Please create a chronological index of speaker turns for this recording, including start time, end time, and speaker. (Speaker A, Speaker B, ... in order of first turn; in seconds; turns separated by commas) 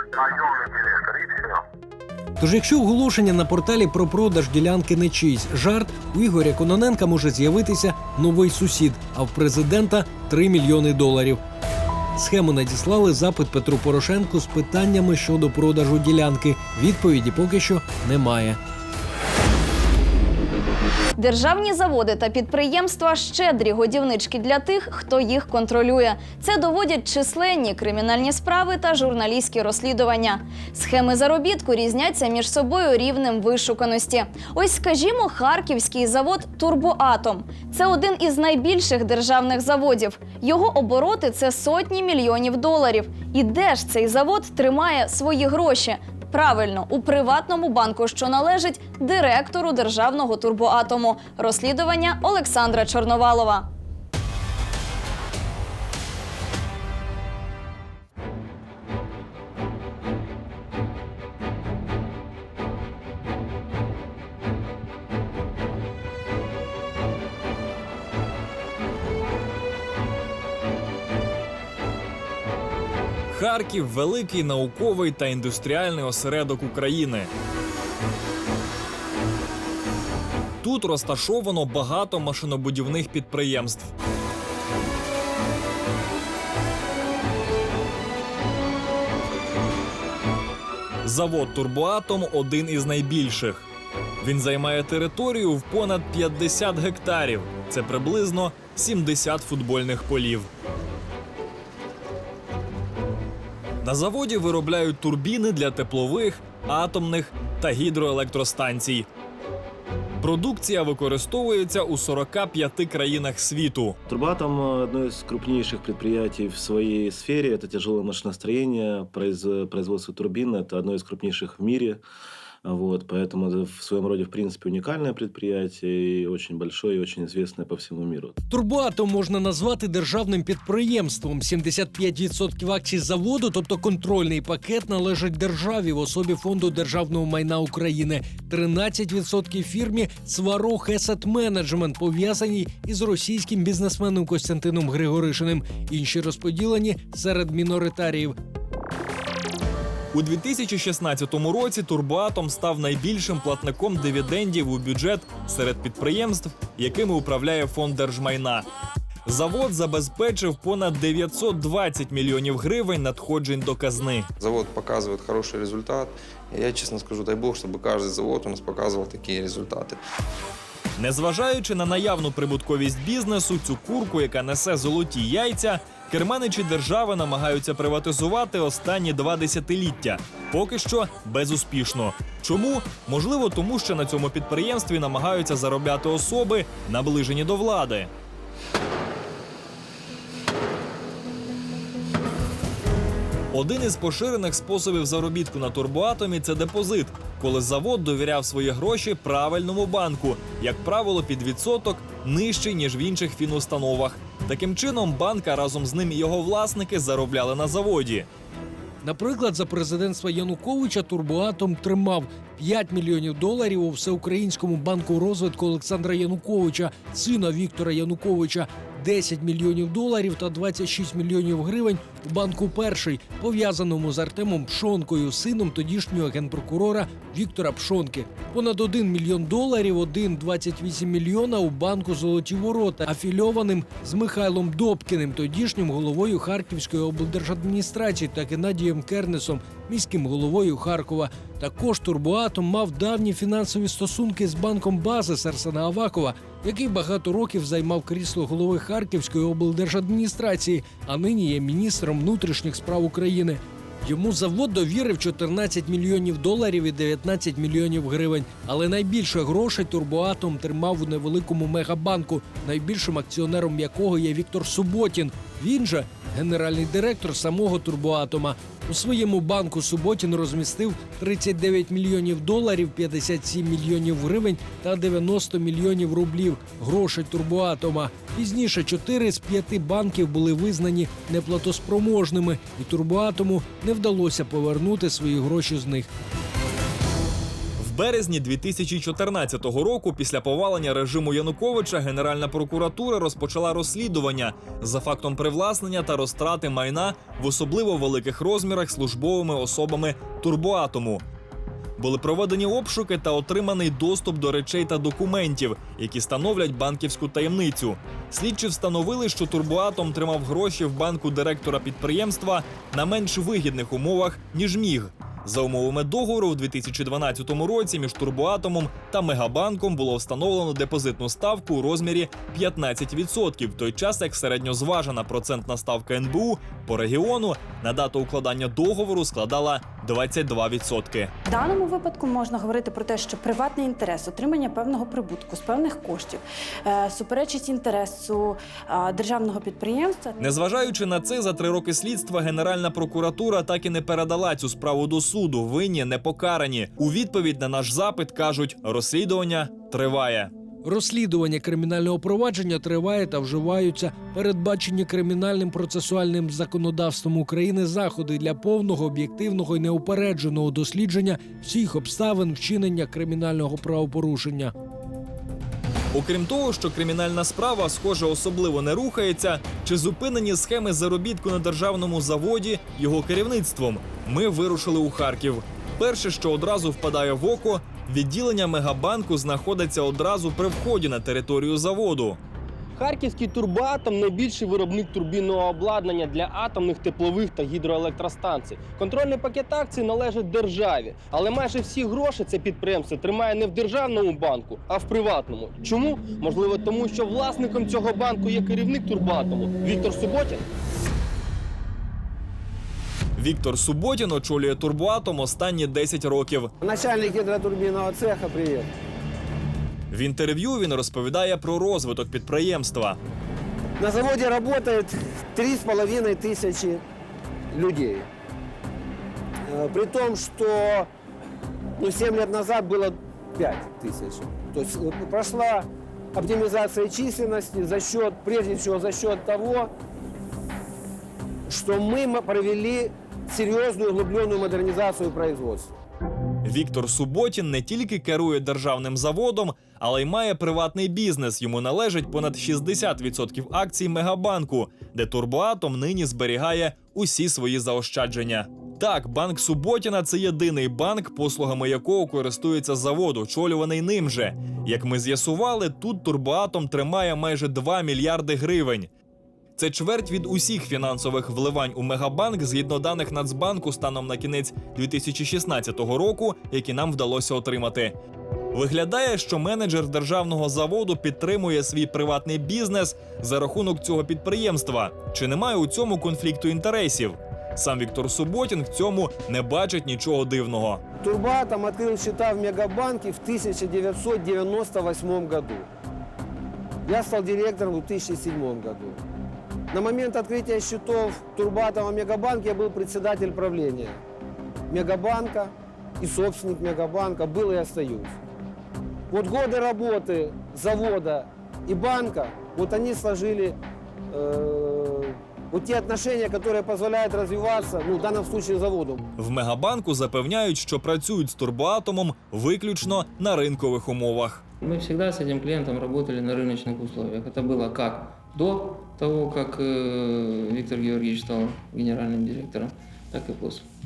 Speaker A: 2.4-11.4, Speaker A: 12.2-18.6, Speaker B: 21.2-53.7, Speaker C: 73.3-77.3, Speaker C: 80.6-83.9, Speaker C: 91.0-93.7, Speaker C: 94.2-100.5, Speaker C: 103.8-109.1, Speaker C: 110.2-114.0, Speaker D: 114.1-122.0, Speaker D: 122.6-128.4, Speaker A: 128.5-148.3, Speaker C: 150.1-158.7, Speaker C: 159.2-164.3, Speaker E: 164.4-170.0, Speaker C: 171.0-188.1, Speaker C: 193.5-208.3, Speaker A: 209.0-286.1, Speaker C: 287.8-301.2, Speaker C: 302.0-331.3, Speaker F: 331.4-340.4, Speaker C: 340.4-350.5, Speaker A: 350.8-364.7, Speaker C: 366.1-382.4, Speaker G: 383.0-400.6, Speaker C: 403.4-406.7, Speaker H: 406.8-408.9, Speaker C: 410.1-413.2, Speaker H: 414.0-417.0, Speaker H: 417.7-418.3, Speaker H: 419.7-421.1, Speaker H: 422.0-429.9, Speaker H: 431.7-435.9, Speaker C: 436.6-459.1, Speaker C: 459.8-468.1, Speaker C: 468.7-481.0, Speaker H: 481.2-485.9, Speaker H: 487.1-489.2, Speaker H: 489.9-494.2, Speaker H: 494.9-498.4, Speaker H: 499.3-503.8, Speaker H: 504.3-509.2, Speaker C: 509.4-514.6, Speaker I: 514.8-523.8